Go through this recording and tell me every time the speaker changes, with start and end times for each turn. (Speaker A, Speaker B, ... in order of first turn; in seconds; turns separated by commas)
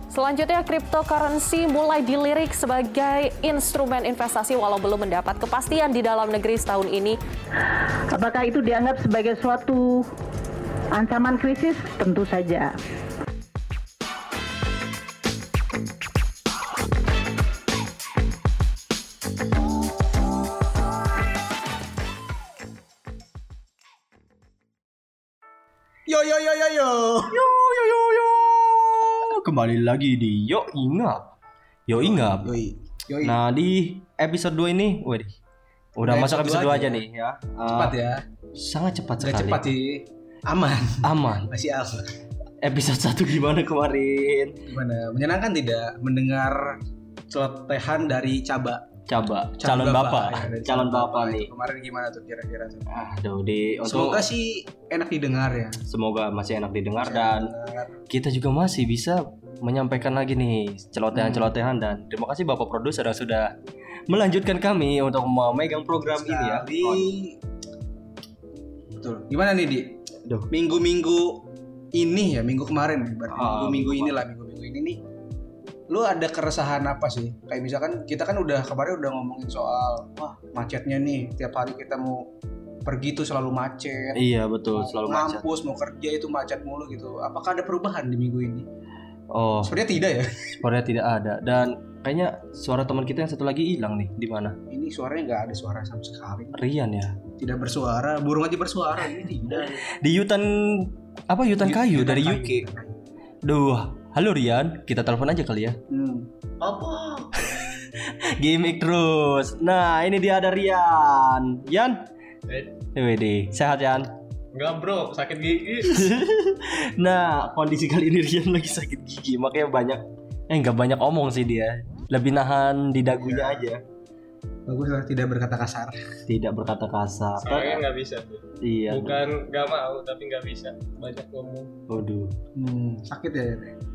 Speaker A: 0.1-7.2, Speaker B: 8.1-10.1, Speaker B: 10.9-12.8, Speaker C: 26.1-27.5, Speaker D: 27.3-31.3, Speaker D: 31.9-32.5, Speaker C: 31.9-33.4, Speaker D: 33.2-35.4, Speaker D: 36.0-38.0, Speaker C: 36.1-37.0, Speaker C: 37.7-38.2, Speaker D: 38.6-39.7, Speaker C: 39.2-42.1, Speaker D: 41.0-41.5, Speaker D: 42.6-44.6, Speaker C: 44.7-46.8, Speaker C: 47.3-48.8, Speaker D: 49.1-51.5, Speaker C: 49.6-52.9, Speaker D: 52.9-54.2, Speaker C: 53.9-55.8, Speaker D: 55.9-57.5, Speaker C: 57.0-58.0, Speaker D: 58.1-63.5, Speaker C: 61.1-61.5, Speaker D: 64.1-67.1, Speaker C: 65.9-67.4, Speaker C: 69.0-70.0, Speaker C: 70.5-75.0, Speaker D: 73.3-74.2, Speaker C: 75.9-82.3, Speaker C: 82.8-88.7, Speaker D: 84.1-85.4, Speaker D: 89.3-89.8, Speaker C: 89.6-90.6, Speaker D: 90.6-94.6, Speaker C: 94.7-96.6, Speaker D: 96.5-97.2, Speaker C: 97.4-99.8, Speaker D: 99.5-102.7, Speaker C: 101.6-103.0, Speaker D: 103.4-105.8, Speaker C: 105.9-106.3, Speaker E: 106.6-107.3, Speaker D: 107.4-112.1, Speaker E: 112.5-112.7, Speaker D: 112.9-114.2, Speaker E: 114.5-116.1, Speaker D: 115.8-123.8, Speaker C: 123.2-123.7, Speaker C: 124.7-126.0, Speaker D: 126.3-127.8, Speaker E: 127.4-131.7, Speaker D: 128.6-129.2, Speaker D: 131.9-132.3, Speaker C: 132.6-133.8